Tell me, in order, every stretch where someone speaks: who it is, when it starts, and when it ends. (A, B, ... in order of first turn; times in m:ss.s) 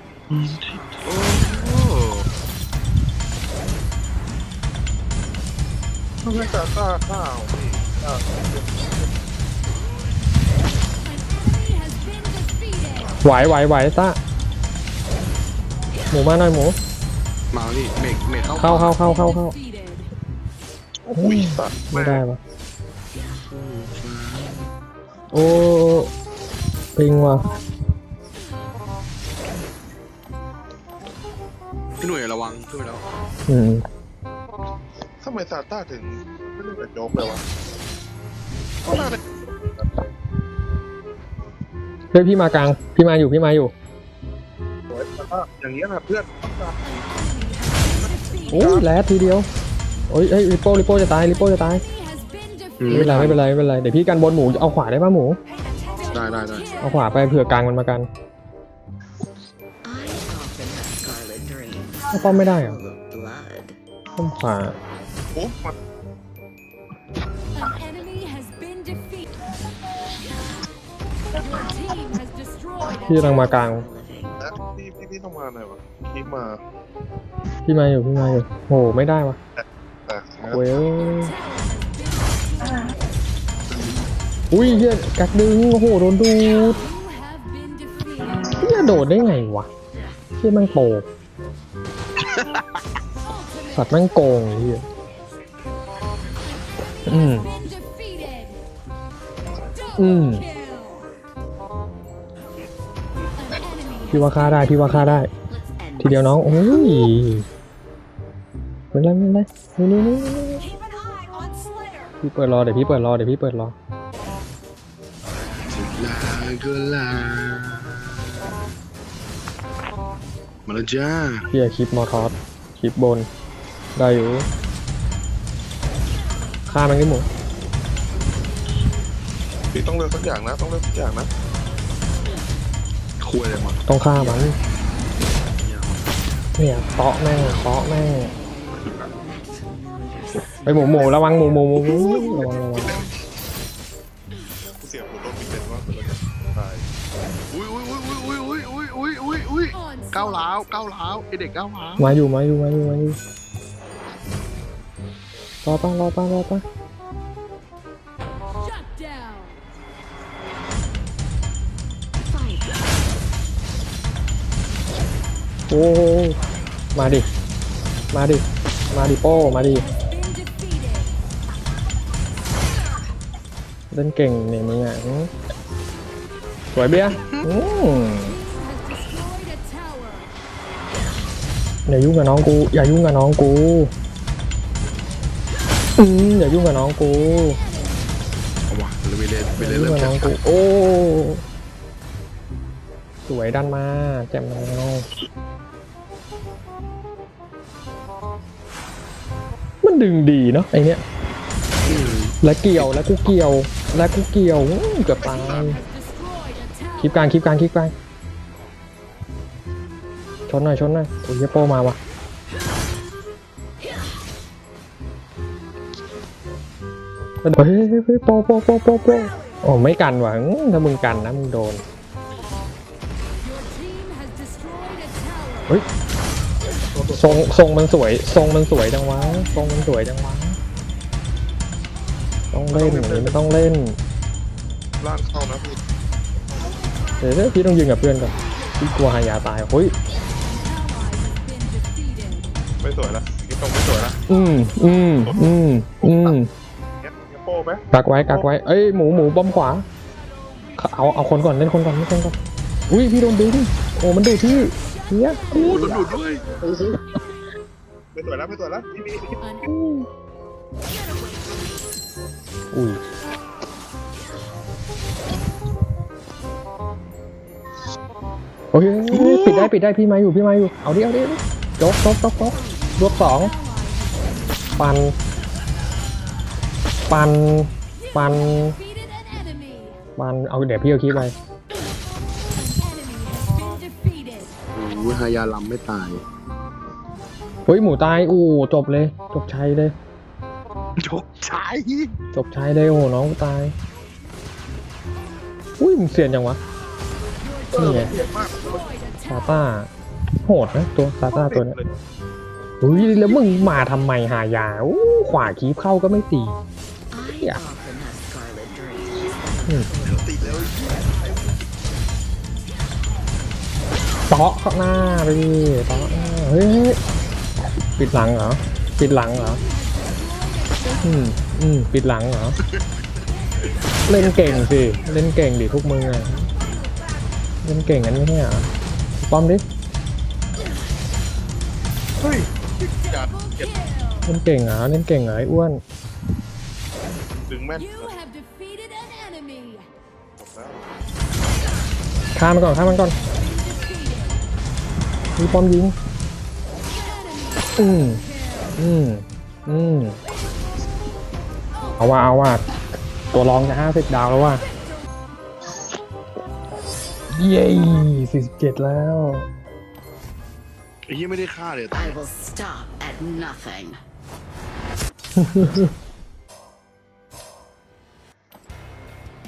0:00.3-0:02.3 A
0:00.7-0:01.2 B
0:06.2-0:09.1 C
0:11.2-0:13.1 D
0:13.2-0:14.2 E
0:16.1-0:16.8 E
0:17.5-0:19.1 A
0:18.6-0:19.6 E
0:19.2-0:20.1 D
0:21.1-0:22.4 E
0:21.2-0:22.2 C
0:23.5-0:24.7 A
0:25.3-0:26.1 E
0:27.0-0:27.4 E
0:32.0-0:33.1 A
0:33.5-0:33.8 E
0:35.2-0:37.4 C
0:38.9-0:39.9 C
0:42.1-0:43.7 E
0:44.9-0:46.8 C
0:47.1-0:48.0 D
0:47.9-0:48.8 C
0:48.5-0:49.5 E
0:50.1-0:51.8 E
0:52.8-0:53.4 A
0:52.9-0:55.4 E
0:56.1-0:56.7 A
0:56.8-0:58.1 E
0:59.8-1:03.8 B
1:02.1-1:02.8 E
1:04.2-1:04.8 E
1:05.4-1:05.7 C
1:07.7-1:09.2 D
1:11.5-1:12.8 D
1:12.9-1:13.9 E
1:13.2-1:14.4 B
1:14.4-1:16.6 C
1:17.7-1:19.4 E
1:19.6-1:20.7 C
1:20.5-1:21.3 E
1:21.3-1:22.9 D
1:24.5-1:26.8 E
1:27.0-1:28.4 D
1:28.6-1:29.7 E
1:29.9-1:30.2 B
1:30.4-1:31.1 E
1:32.2-1:32.6 A
1:33.7-1:34.8 E
1:37.1-1:37.5 E
1:37.5-1:38.6 D
1:40.0-1:40.4 E
1:40.5-1:41.0 D
1:43.5-1:44.1 D
1:44.1-1:45.3 E
1:44.8-1:46.8 B
1:46.0-1:47.5 E
1:48.9-1:50.6 E
1:51.6-1:52.0 D
1:52.2-1:53.8 E
1:55.7-1:58.6 A
2:00.7-2:01.5 A
2:01.5-2:03.3 E
2:04.0-2:04.5 E
2:06.7-2:07.3 E
2:09.7-2:11.3 C
2:13.2-2:13.8 A
2:13.9-2:14.6 E
2:15.6-2:16.0 A
2:16.6-2:18.3 E
2:18.8-2:19.1 A
2:19.2-2:21.1 B
2:20.7-2:23.0 E
2:24.8-2:26.8 C
2:27.5-2:32.2 A
2:29.7-2:30.1 D
2:32.0-2:33.2 E
2:35.6-2:36.6 E
2:38.6-2:39.5 D
2:45.7-2:46.4 E
2:47.0-2:47.3 E
2:48.1-2:49.9 E
2:50.0-2:51.1 D
2:53.9-2:55.3 E
2:56.7-2:58.4 E
2:56.9-2:57.5 A
2:58.5-3:00.3 D
3:01.9-3:03.9 E
3:06.0-3:07.6 E
3:08.7-3:10.4 A
3:09.6-3:11.4 E
3:13.3-3:15.1 E
3:19.8-3:21.0 E
3:21.8-3:22.3 A
3:22.4-3:25.8 E
3:25.5-3:26.9 D
3:27.0-3:27.9 E
3:30.5-3:32.0 E
3:37.4-3:41.8 E
3:43.6-3:45.5 D
3:46.9-3:47.5 C
3:47.2-3:50.6 E
3:52.5-3:54.0 E
3:52.7-3:53.4 C
3:55.0-3:55.8 C
3:57.2-4:00.0 E
4:00.7-4:02.4 D
4:02.8-4:04.2 C
4:04.3-4:06.5 E
4:05.2-4:05.6 C
4:07.0-4:08.4 C
4:07.9-4:09.9 E
4:10.8-4:12.4 E
4:12.9-4:15.9 E
4:15.5-4:15.8 C
4:15.5-4:16.5 A
4:18.1-4:19.4 C
4:19.6-4:20.1 E
4:20.9-4:21.9 B
4:22.7-4:23.0 E
4:28.7-4:33.5 E
4:29.1-4:29.7 A
4:32.5-4:33.0 B
4:33.6-4:34.5 D
4:34.6-4:35.0 B
4:34.8-4:35.1 E
4:37.1-4:38.8 E
4:38.8-4:40.0 D
4:40.2-4:41.3 E
4:42.6-4:44.5 D
4:44.7-4:46.2 A
4:47.7-4:50.0 E
4:51.0-4:52.2 A
4:52.3-4:53.7 E
4:55.8-4:56.6 E
4:57.7-4:58.9 C
4:57.8-4:58.1 E
4:59.3-4:59.9 E
5:00.4-5:01.8 E
5:01.3-5:01.9 C
5:02.8-5:06.6 E
5:07.1-5:11.1 B
5:10.0-5:11.6 A
5:14.3-5:17.0 E
5:18.0-5:19.6 E
5:21.0-5:22.6 E
5:24.1-5:26.5 E
5:27.6-5:28.7 E
5:29.2-5:29.6 E
5:32.2-5:32.5 C
5:33.1-5:33.5 C
5:34.3-5:35.8 E
5:37.5-5:38.1 C
5:38.1-5:39.9 D
5:40.4-5:40.9 C
5:42.4-5:43.2 E
5:43.4-5:44.3 D
5:45.4-5:46.0 E
5:47.8-5:48.2 E
5:48.8-5:50.2 E
5:52.0-5:52.6 E
5:53.3-5:54.6 E
5:57.3-5:59.5 E
6:01.1-6:02.2 A
6:01.9-6:04.0 B
6:05.4-6:05.9 E